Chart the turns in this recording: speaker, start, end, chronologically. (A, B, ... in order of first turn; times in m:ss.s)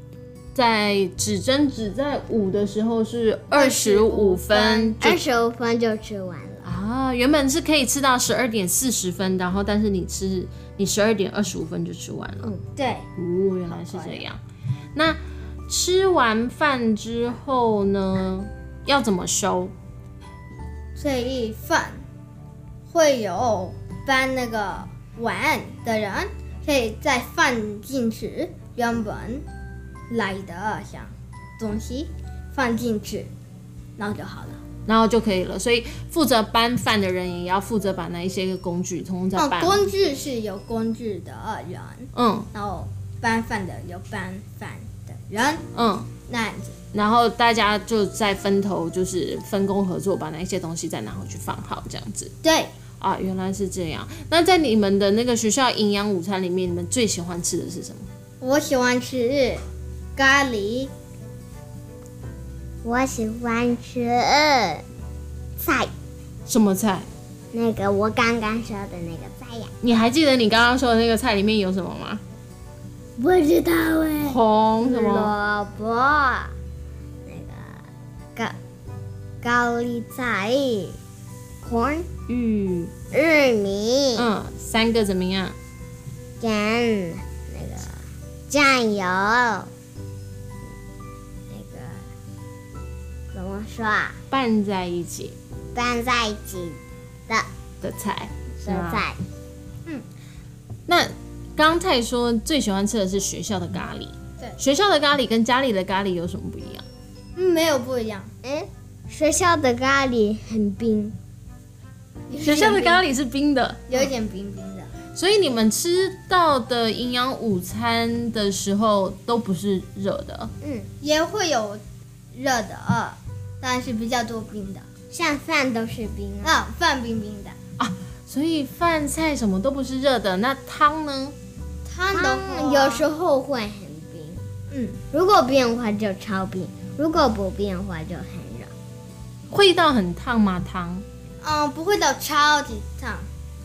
0:00.5-0:05.2 A
0:03.5-0:05.0 B
0:05.0-0:06.7 C
0:06.6-0:12.5 A
0:12.8-0:13.1 B
0:13.2-0:14.4 A
0:13.8-0:14.2 B
0:14.9-0:19.7 A
0:21.0-0:22.0 B
0:22.9-0:29.4 B
0:30.1-0:33.3 B
0:34.0-0:34.6 B
0:34.8-0:39.8 A
0:39.4-0:45.6 B
0:42.1-0:42.5 A
0:45.7-0:46.1 A
0:46.3-0:46.8 B
0:46.9-0:52.3 A
0:52.4-0:52.7 B
0:53.0-0:58.1 A
0:58.4-0:59.6 B
1:00.2-1:00.9 B
1:02.8-1:04.8 C
1:05.6-1:05.9 C
1:06.4-1:07.1 A
1:07.5-1:09.7 C
1:09.8-1:12.2 A
1:13.2-1:16.5 C
1:14.2-1:15.3 A
1:17.2-1:18.6 C
1:19.4-1:21.0 C
1:21.6-1:22.1 C
1:22.3-1:22.9 A
1:23.1-1:24.3 C
1:24.1-1:25.6 A
1:26.4-1:29.7 C
1:31.5-1:32.1 C
1:33.3-1:34.2 C
1:34.3-1:35.3 A
1:35.7-1:37.5 C
1:37.8-1:39.0 A
1:38.6-1:39.2 C
1:40.9-1:46.8 A
1:47.4-1:48.3 B
1:48.4-1:51.2 C
1:52.3-1:53.0 B
1:52.4-1:54.1 A
1:53.9-1:54.9 B
1:55.1-2:00.5 A
2:00.6-2:00.9 C
2:01.0-2:01.8 B
2:02.3-2:04.9 B
2:05.1-2:06.6 C
2:06.4-2:07.6 B
2:07.8-2:11.3 A
2:11.9-2:13.1 B
2:12.1-2:14.5 C
2:14.7-2:15.0 B
2:15.1-2:18.7 C
2:19.5-2:21.0 A
2:21.4-2:23.3 B